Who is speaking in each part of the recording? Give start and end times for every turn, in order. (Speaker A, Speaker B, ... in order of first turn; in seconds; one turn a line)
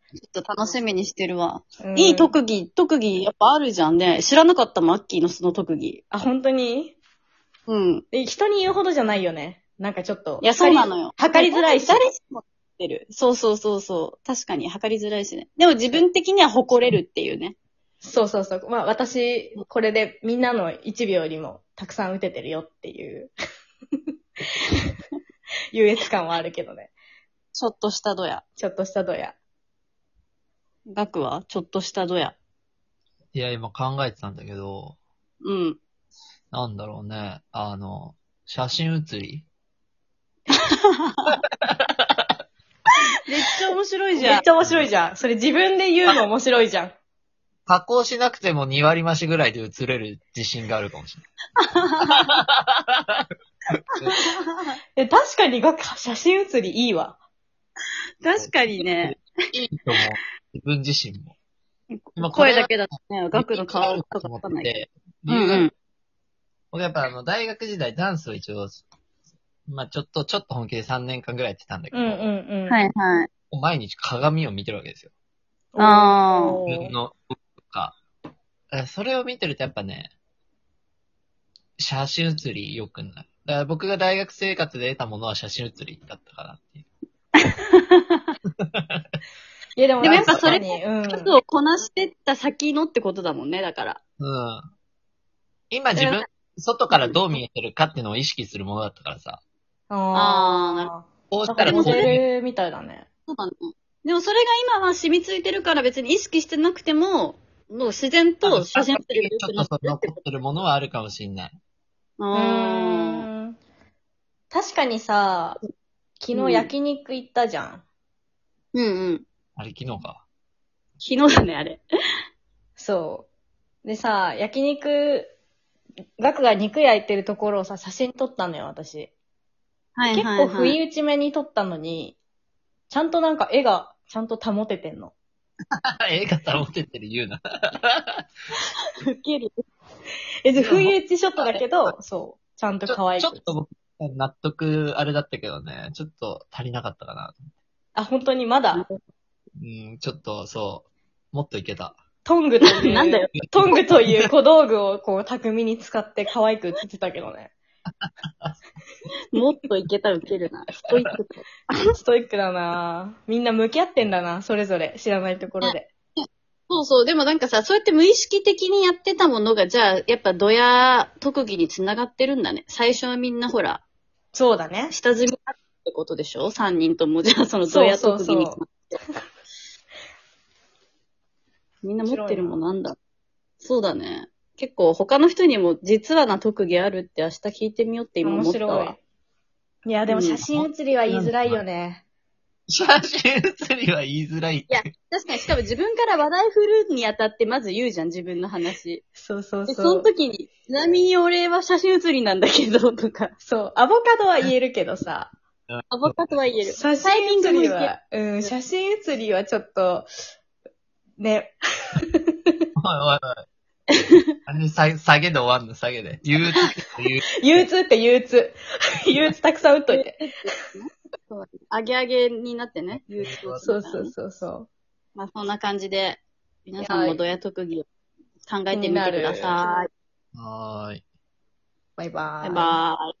Speaker A: 0.2-6.0
Speaker B: 1.8-2.3
Speaker B: 6.1-7.0
Speaker A: 7.7-8.0
Speaker B: 8.1-12.0
Speaker A: 10.4-17.6
Speaker B: 18.0-23.3
Speaker B: 25.7-26.9
Speaker A: 27.5-28.4
Speaker B: 28.6-29.4
Speaker A: 30.9-32.4
Speaker C: 33.3-35.0
Speaker A: 35.4-35.8
Speaker C: 36.5-39.5
Speaker A: 40.5-41.3
Speaker C: 41.6-42.1
Speaker A: 43.3-44.4
Speaker B: 44.1-46.9
Speaker C: 44.6-44.9
Speaker C: 47.7-51.2
Speaker A: 51.6-52.3
Speaker C: 52.1-53.3
Speaker A: 54.2-54.7
Speaker B: 55.0-57.2
Speaker A: 58.2-59.2
Speaker C: 58.4-61.3
Speaker A: 61.9-65.7
Speaker C: 62.1-65.7
Speaker C: 66.7-68.8
Speaker C: 69.7-72.3
Speaker B: 71.9-72.8
Speaker A: 72.7-73.3
Speaker C: 73.5-75.1
Speaker B: 75.7-76.9
Speaker A: 75.8-76.6
Speaker C: 76.7-78.0
Speaker C: 78.7-80.1
Speaker C: 81.8-86.8
Speaker A: 87.3-88.3
Speaker C: 88.6-89.0
Speaker B: 89.8-91.3
Speaker A: 90.0-94.0
Speaker C: 90.0-90.6
Speaker C: 94.2-94.7
Speaker C: 95.7-99.4
Speaker A: 95.9-96.2
Speaker B: 99.9-103.0
Speaker A: 100.1-100.9
Speaker C: 101.3-102.2
Speaker A: 101.7-102.2
Speaker A: 103.3-110.2
Speaker C: 108.4-111.5
Speaker A: 112.2-113.3
Speaker B: 112.3-113.6
Speaker B: 114.5-115.6
Speaker B: 116.2-117.8
Speaker A: 116.3-116.7
Speaker A: 118.7-119.2
Speaker C: 119.5-120.2
Speaker A: 121.0-121.8
Speaker B: 122.8-123.3
Speaker B: 123.8-125.3
Speaker B: 126.2-129.1
Speaker A: 129.9-130.8
Speaker B: 130.1-132.2
Speaker B: 132.9-135.1
Speaker C: 135.8-138.2
Speaker A: 139.1-139.6
Speaker B: 140.4-143.5
Speaker C: 140.5-141.9
Speaker C: 142.9-147.4
Speaker B: 147.9-148.8
Speaker A: 148.7-149.0
Speaker C: 149.6-152.0
Speaker B: 152.2-157.5
Speaker A: 152.6-153.3
Speaker C: 153.4-154.3
Speaker C: 158.0-158.6
Speaker A: 159.3-161.8
Speaker B: 162.0-165.9
Speaker A: 165.6-173.8
Speaker B: 174.3-174.9
Speaker A: 174.9-178.8
Speaker B: 177.7-178.6
Speaker A: 181.8-182.9
Speaker B: 182.0-182.6
Speaker A: 183.6-188.9
Speaker B: 188.2-189.0
Speaker B: 189.8-192.0
Speaker A: 190.1-190.4
Speaker C: 190.5-191.6
Speaker C: 192.7-194.8
Speaker A: 194.7-199.0
Speaker B: 199.2-200.1
Speaker A: 199.7-203.3
Speaker B: 203.4-205.3
Speaker C: 205.7-206.2
Speaker A: 205.9-207.9
Speaker B: 206.7-210.1
Speaker B: 211.2-212.2
Speaker C: 212.8-213.4
Speaker C: 214.4-217.6
Speaker B: 217.4-220.3
Speaker A: 219.9-224.1
Speaker C: 223.2-223.6
Speaker B: 223.6-224.7
Speaker A: 225.1-227.8
Speaker B: 226.8-227.2
Speaker A: 228.4-229.9
Speaker B: 228.7-229.6
Speaker C: 230.3-231.0
Speaker B: 232.0-232.8
Speaker A: 232.4-233.1